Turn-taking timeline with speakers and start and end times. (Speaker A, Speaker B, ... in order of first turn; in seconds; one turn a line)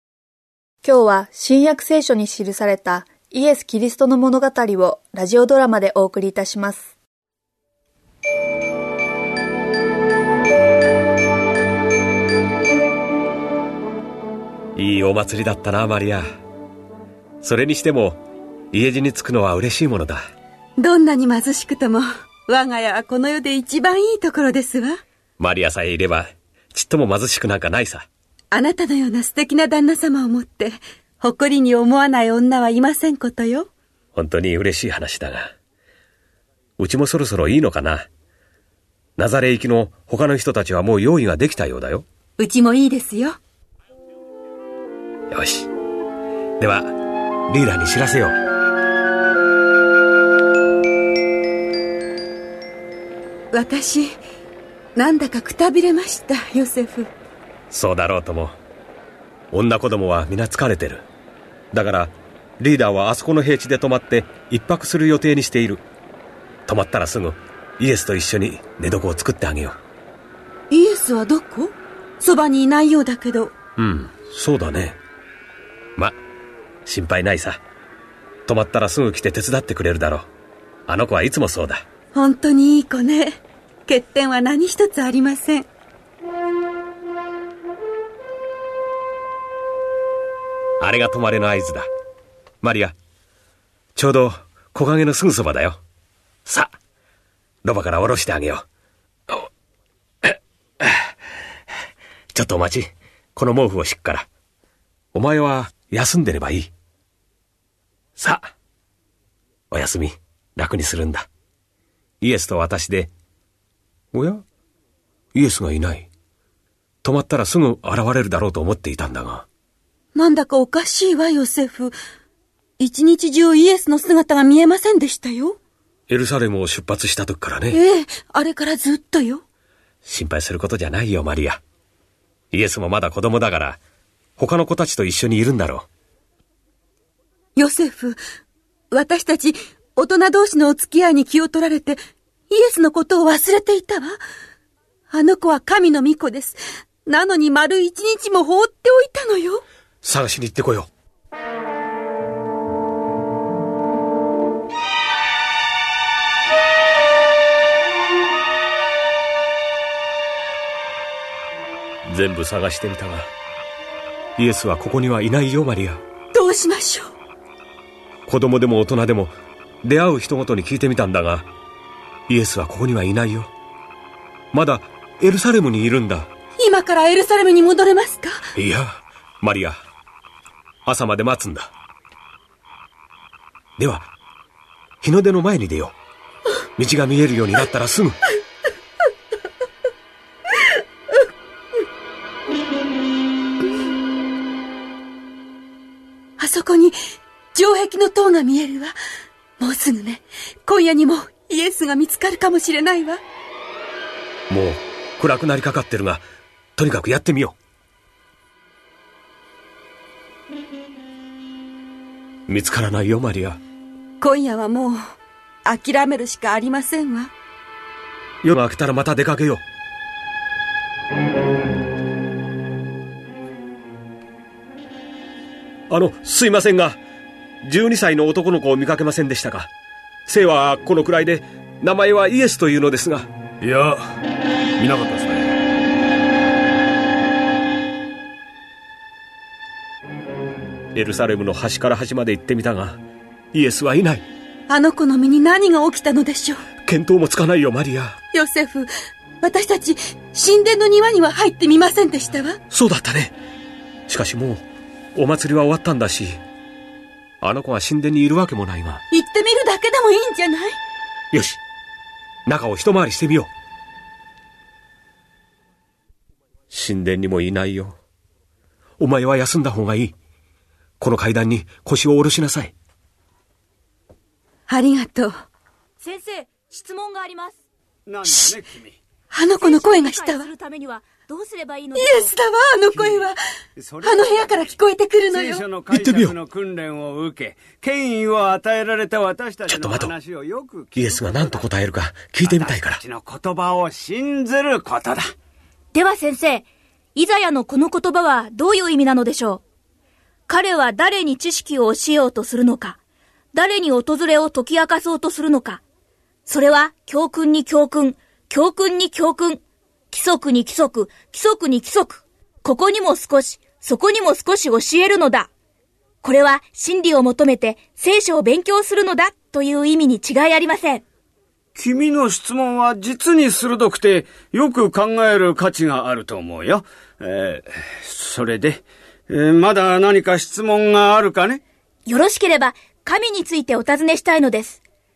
Speaker A: 0.8-6.9
Speaker B: 14.8-16.2
Speaker B: 17.4-20.2
Speaker C: 20.8-25.0
Speaker B: 25.4-28.1
Speaker C: 28.5-33.7
Speaker B: 34.1-35.5
Speaker B: 36.8-38.1
Speaker B: 39.2-42.1
Speaker C: 42.4-43.4
Speaker B: 45.3-45.7
Speaker B: 46.6-47.0
Speaker B: 47.5-48.4
Speaker C: 53.5-54.1
Speaker C: 55.0-57.1
Speaker B: 57.7-58.5
Speaker B: 59.5-61.1
Speaker B: 61.7-65.8
Speaker B: 66.7-69.8
Speaker C: 70.7-73.5
Speaker B: 73.8-75.0
Speaker B: 76.9-77.6
Speaker B: 78.5-80.3
Speaker B: 80.9-81.8
Speaker C: 82.1-85.7
Speaker B: 90.8-91.9
Speaker B: 92.6-93.0
Speaker B: 94.0-95.8
Speaker B: 96.5-96.7
Speaker B: 97.6-98.6
Speaker B: 100.2-100.9
Speaker B: 102.3-104.3
Speaker B: 105.1-106.7
Speaker B: 108.2-108.5
Speaker B: 109.7-111.3
Speaker B: 112.2-113.1
Speaker B: 114.1-114.4
Speaker B: 115.3-116.1
Speaker B: 117.0-119.5
Speaker C: 120.2-121.9
Speaker C: 122.8-125.6
Speaker B: 126.1-127.8
Speaker C: 127.7-129.4
Speaker B: 130.1-131.6
Speaker B: 132.5-133.8
Speaker B: 134.4-135.9
Speaker C: 137.6-138.2
Speaker C: 138.9-142.0
Speaker C: 142.5-144.2
Speaker C: 145.1-149.6
Speaker B: 150.0-150.9
Speaker B: 162.1-163.3
Speaker B: 164.4-166.0
Speaker C: 166.3-167.1
Speaker B: 168.3-171.5
Speaker B: 172.3-173.5
Speaker B: 174.5-176.3
Speaker C: 176.6-178.4
Speaker B: 178.6-179.8
Speaker B: 180.9-181.7
Speaker B: 183.8-184.1
Speaker B: 185.0-185.9
Speaker B: 186.8-188.2
Speaker C: 196.4-196.9
Speaker C: 197.5-198.9
Speaker C: 199.6-203.2
Speaker B: 204.5-206.2
Speaker B: 206.8-207.6
Speaker B: 212.5-213.6
Speaker C: 214.2-215.0
Speaker C: 215.7-217.3
Speaker B: 218.4-219.6
Speaker B: 225.9-227.0
Speaker B: 227.6-229.7
Speaker B: 230.3-233.3
Speaker D: 233.6-234.0
Speaker D: 234.8-235.5
Speaker B: 240.9-243.0
Speaker B: 243.5-244.2
Speaker C: 244.7-246.6
Speaker B: 246.8-248.2
Speaker C: 248.3-248.9
Speaker C: 249.4-252.6
Speaker B: 252.7-253.3
Speaker B: 254.1-254.6
Speaker B: 255.2-256.4
Speaker B: 257.4-259.0
Speaker C: 259.1-260.8
Speaker B: 261.3-261.6
Speaker B: 262.5-263.5
Speaker B: 266.7-268.0
Speaker B: 269.0-270.1
Speaker B: 271.0-272.7
Speaker C: 274.7-275.3
Speaker E: 276.0-277.6
Speaker D: 278.1-279.0
Speaker C: 279.3-280.5
Speaker E: 279.6-282.3
Speaker C: 281.9-283.4
Speaker D: 282.9-283.3
Speaker D: 283.8-291.7
Speaker C: 284.0-285.6
Speaker B: 285.9-286.4
Speaker B: 289.7-290.1
Speaker B: 291.0-293.0
Speaker D: 292.4-295.2
Speaker E: 295.9-299.6
Speaker E: 300.5-303.0
Speaker E: 303.5-305.8
Speaker E: 306.5-315.5
Speaker E: 316.2-321.0
Speaker D: 321.8-331.6
Speaker E: 332.1-334.8